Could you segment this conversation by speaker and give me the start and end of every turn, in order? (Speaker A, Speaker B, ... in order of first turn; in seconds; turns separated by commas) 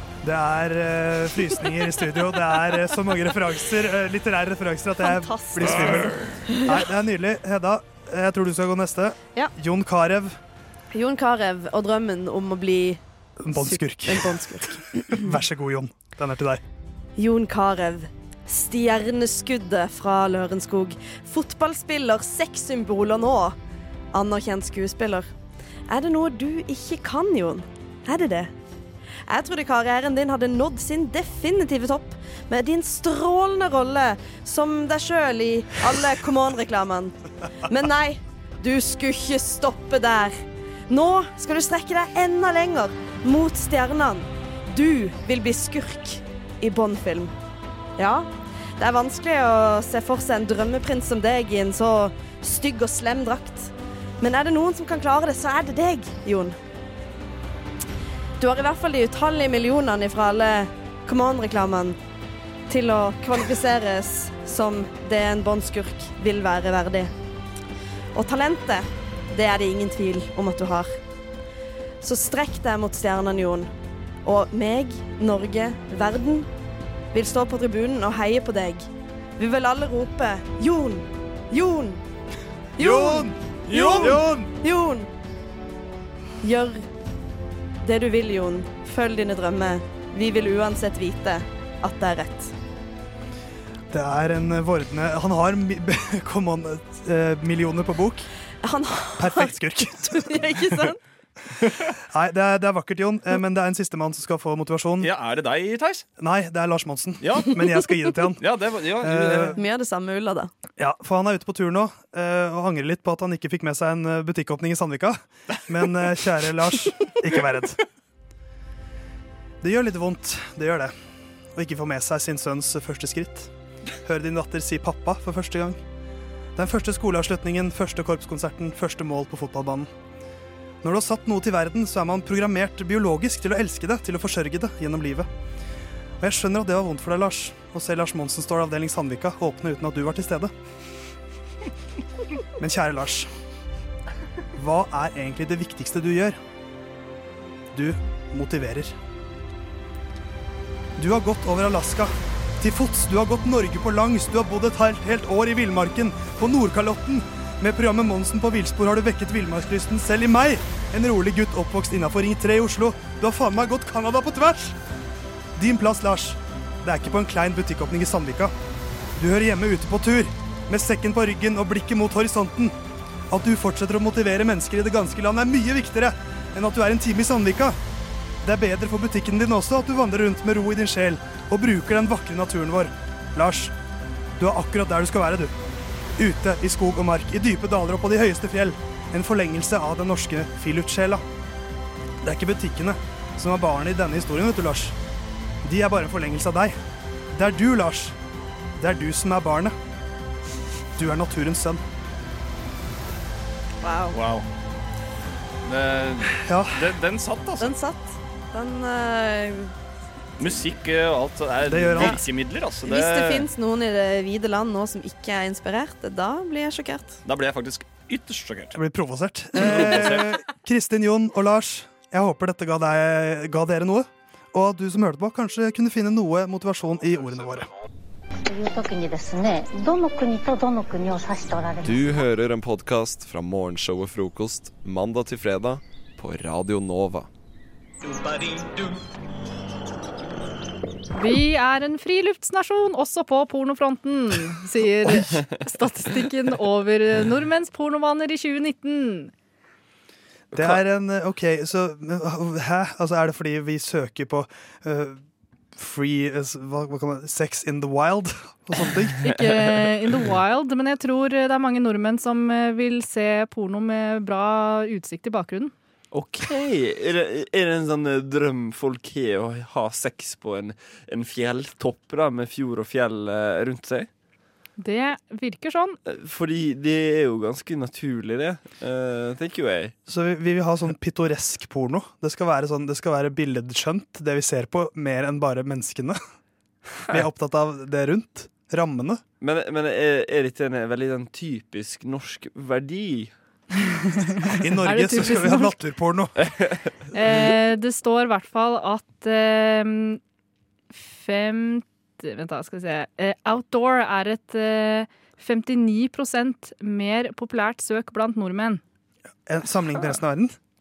Speaker A: 0.2-10.4, Speaker B: 5.0-6.8, Speaker B: 10.9-13.0, Speaker A: 13.4-16.6, Speaker B: 13.5-15.3, Speaker B: 17.2-23.6, Speaker B: 24.1-25.3, Speaker B: 25.9-28.5, Speaker B: 29.3-40.4, Speaker B: 40.9-47.3, Speaker B: 48.0-56.6, Speaker B: 58.4-62.0, Speaker B: 62.7-67.1, Speaker B: 68.1-71.0, Speaker B: 72.0-73.7, Speaker B: 74.2-76.5, Speaker B: 77.1-82.0, Speaker A: 82.8-84.4, Speaker B: 82.8-85.1, Speaker C: 83.7-84.4, Speaker B: 86.4-86.8, Speaker B: 87.8-92.5, Speaker A: 93.9-98.3, Speaker B: 98.6-101.0, Speaker A: 99.2-100.9, Speaker A: 101.7-105.1, Speaker C: 105.0-106.0, Speaker A: 106.2-108.4, Speaker C: 107.2-107.5, Speaker C: 108.4-109.6, Speaker A: 109.0-109.6, Speaker B: 109.5-110.5, Speaker A: 110.8-117.8, Speaker A: 119.6-120.9, Speaker A: 121.5-123.5, Speaker A: 124.0-125.8, Speaker A: 126.5-129.9, Speaker A: 130.8-135.3, Speaker A: 136.2-140.5, Speaker A: 142.6-143.3, Speaker A: 144.5-146.4, Speaker A: 147.7-148.9, Speaker A: 151.0-164.8, Speaker A: 165.6-168.5, Speaker A: 169.2-172.8, Speaker A: 173.3-177.8, Speaker A: 178.4-183.7, Speaker A: 184.4-185.5, Speaker A: 186.2-191.2, Speaker A: 192.2-194.9, Speaker A: 195.6-196.8, Speaker A: 197.3-198.1, Speaker A: 198.8-199.7, Speaker A: 201.0-201.8, Speaker B: 203.8-204.2, Speaker C: 204.1-204.4, Speaker C: 205.7-207.7, Speaker A: 206.4-206.8, Speaker B: 207.6-209.7, Speaker C: 210.4-213.5, Speaker A: 211.6-212.2, Speaker B: 212.8-217.2, Speaker C: 217.2-218.8, Speaker A: 218.7-227.7, Speaker C: 219.6-220.3, Speaker D: 228.3-232.2, Speaker E: 231.8-237.3, Speaker F: 241.1-249.3, Speaker G: 250.5-250.8, Speaker A: 250.5-255.2, Speaker A: 255.7-259.2, Speaker F: 259.2-265.7, Speaker G: 266.1-274.1, Speaker F: 274.8-276.0, Speaker G: 276.1-279.9, Speaker A: 280.1-286.2, Speaker A: 287.1-289.2, Speaker G: 289.4-293.3, Speaker F: 293.8-295.7, Speaker A: 294.6-296.3, Speaker G: 296.4-296.8, Speaker F: 297.1-300.2, Speaker F: 300.9-308.8, Speaker A: 309.4-310.5